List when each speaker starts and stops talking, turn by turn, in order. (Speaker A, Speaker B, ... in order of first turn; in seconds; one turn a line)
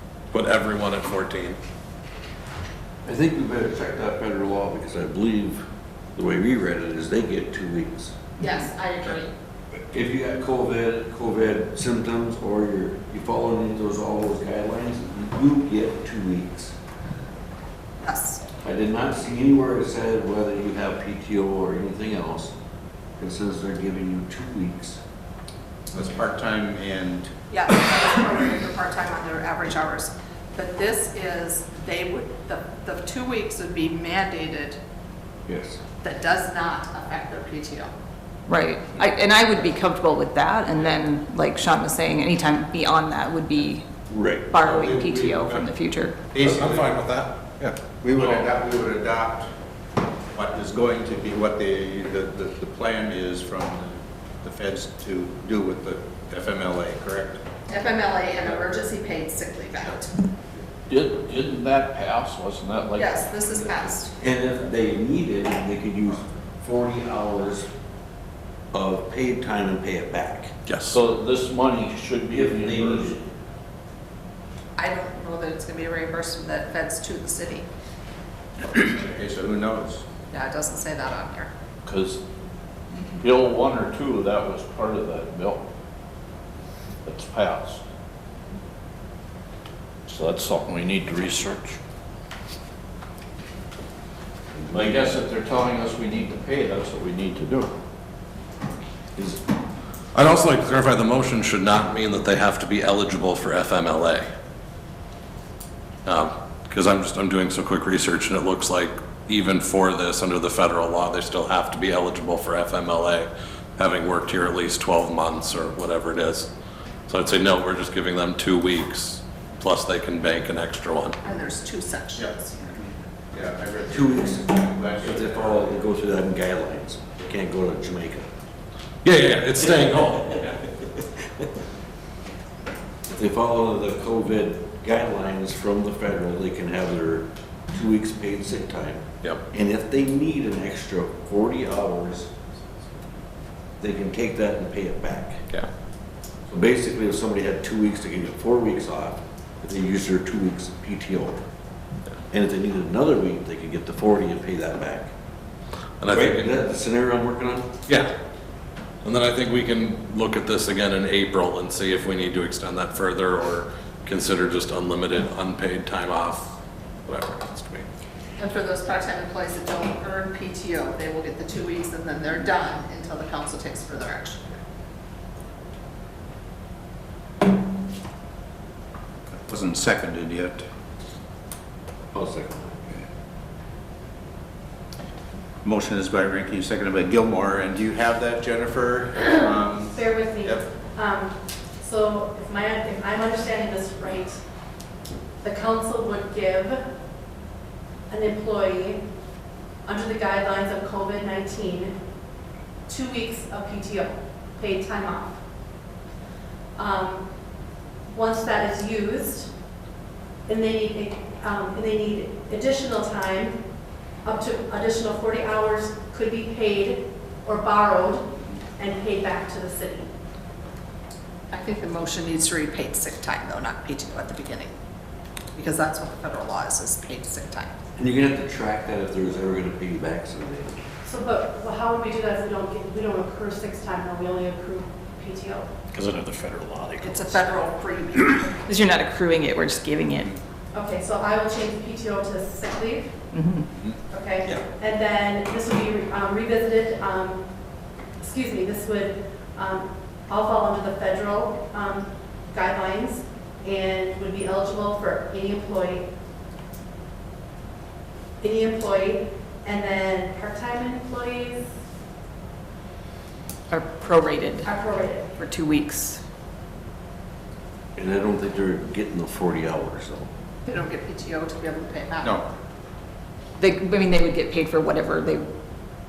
Speaker A: 0.3-1.6
Speaker B: 3.0-8.2
Speaker C: 8.4-9.3
Speaker B: 9.9-16.8
Speaker C: 18.0-18.4
Speaker B: 18.6-22.5
Speaker B: 23.2-25.0
Speaker D: 25.9-27.3
Speaker C: 27.5-34.8
Speaker B: 35.5-35.8
Speaker C: 36.0-37.9
Speaker E: 38.5-43.9
Speaker B: 44.1-44.5
Speaker E: 44.5-46.2
Speaker D: 44.6-45.7
Speaker D: 46.3-49.5
Speaker A: 46.6-47.0
Speaker D: 50.3-57.4
Speaker C: 57.7-60.1
Speaker F: 60.9-63.2
Speaker C: 63.0-64.1
Speaker B: 64.2-67.7
Speaker B: 68.7-70.5
Speaker A: 70.7-71.0
Speaker F: 70.9-73.2
Speaker B: 72.3-73.2
Speaker C: 74.8-77.7
Speaker D: 78.7-80.0
Speaker C: 80.3-81.5
Speaker F: 81.8-82.2
Speaker F: 83.2-85.6
Speaker F: 87.0-87.8
Speaker F: 90.1-91.8
Speaker B: 94.5-95.2
Speaker F: 94.7-97.7
Speaker B: 99.2-99.4
Speaker A: 100.1-104.3
Speaker A: 106.1-116.5
Speaker A: 117.1-121.2
Speaker C: 121.2-122.8
Speaker D: 123.3-125.7
Speaker B: 123.9-128.3
Speaker A: 129.0-130.5
Speaker B: 133.1-142.3
Speaker B: 143.8-145.4
Speaker B: 146.5-151.4
Speaker B: 152.3-155.1
Speaker A: 156.0-156.5
Speaker B: 156.1-157.7
Speaker A: 159.0-167.9
Speaker C: 168.4-174.4
Speaker D: 179.4-180.6
Speaker B: 182.1-183.1
Speaker D: 185.6-190.7
Speaker G: 189.9-194.4
Speaker G: 195.4-196.8
Speaker G: 198.1-199.0
Speaker G: 199.9-202.0
Speaker G: 202.9-205.4
Speaker G: 206.8-207.3
Speaker G: 208.1-209.5
Speaker G: 210.5-213.6
Speaker G: 214.2-220.1
Speaker C: 221.5-224.7
Speaker C: 225.6-227.8
Speaker B: 228.0-230.8
Speaker G: 231.0-235.7
Speaker A: 235.9-237.1
Speaker C: 237.0-238.5
Speaker E: 238.7-240.3
Speaker G: 240.7-243.2
Speaker E: 243.3-243.7
Speaker G: 244.1-247.5
Speaker G: 248.2-256.1
Speaker G: 258.4-261.7
Speaker E: 263.7-264.7
Speaker G: 264.6-265.3
Speaker E: 265.3-266.2
Speaker B: 268.0-270.3
Speaker C: 270.6-272.4
Speaker D: 272.2-272.5
Speaker E: 273.6-275.5